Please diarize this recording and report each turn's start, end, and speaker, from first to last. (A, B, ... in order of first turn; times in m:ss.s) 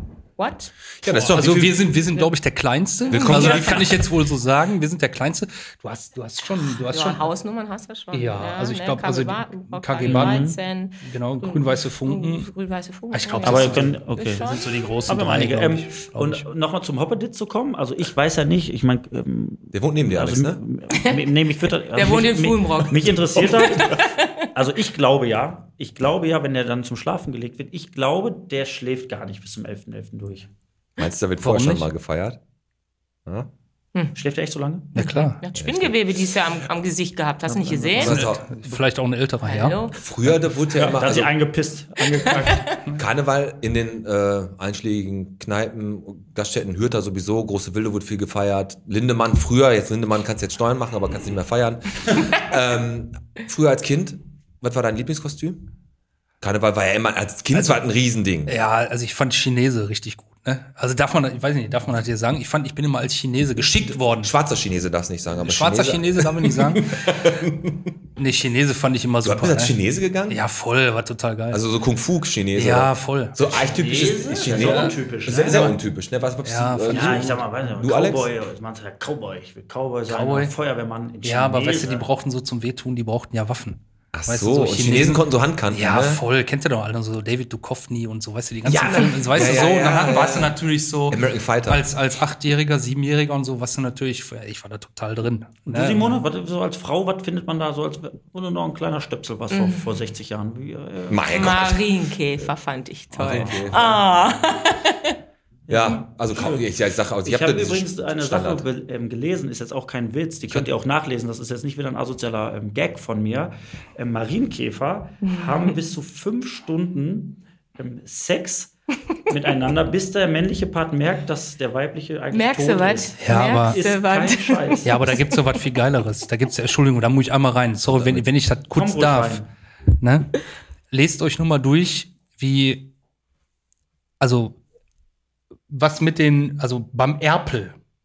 0:00.4-0:00.7 A
0:01.0-0:01.9 B
0:01.0-0:07.3 C
0:03.1-0:03.9 A
0:03.1-0:04.0 B
0:06.8-0:14.7 A
0:08.1-0:12.5 C
0:10.0-0:10.6 D
0:13.1-0:16.4 C
0:13.4-0:14.5 D
0:15.1-0:24.0 D
0:19.7-0:20.6 B
0:21.9-0:24.4 A
0:24.5-0:30.5 D
0:31.0-0:32.4 B
0:31.4-0:31.9 C
0:34.2-0:35.0 D
0:35.0-0:35.4 C
0:35.0-0:38.2 A
0:35.6-0:36.0 B
0:37.5-0:38.2 D
0:38.0-0:39.8 C
0:38.0-0:38.5 B
0:39.4-0:40.0 A
0:40.0-0:41.3 B
0:40.7-0:42.7 D
0:43.0-0:55.6 B
0:56.4-0:58.5 B
0:58.5-1:04.3 C
1:03.8-1:07.9 B
1:05.4-1:06.9 C
1:08.2-1:09.8 C
1:09.2-1:10.4 B
1:10.3-1:11.6 C
1:11.5-1:18.3 B
1:12.6-1:13.4 C
1:13.5-1:15.8 D
1:14.5-1:15.0 C
1:16.4-1:17.4 C
1:16.9-1:22.1 D
1:20.1-1:20.5 C
1:21.2-1:36.2 C
1:24.1-1:26.2 B
1:28.6-1:30.6 B
1:31.1-1:31.8 B
1:35.7-1:41.3 D
1:39.5-1:39.9 A
1:41.1-1:41.9 B
1:41.3-1:45.2 A
1:43.1-1:44.0 B
1:45.7-1:46.6 D
1:45.7-1:48.6 B
1:47.2-1:58.7 D
1:55.2-1:55.7 A
1:59.3-2:05.2 D
2:02.3-2:05.2 A
2:03.2-2:03.8 C
2:04.8-2:09.4 C
2:07.9-2:08.3 B
2:08.7-2:09.5 D
2:10.0-2:10.4 C
2:10.9-2:12.9 C
2:14.2-2:14.6 C
2:15.7-2:17.8 C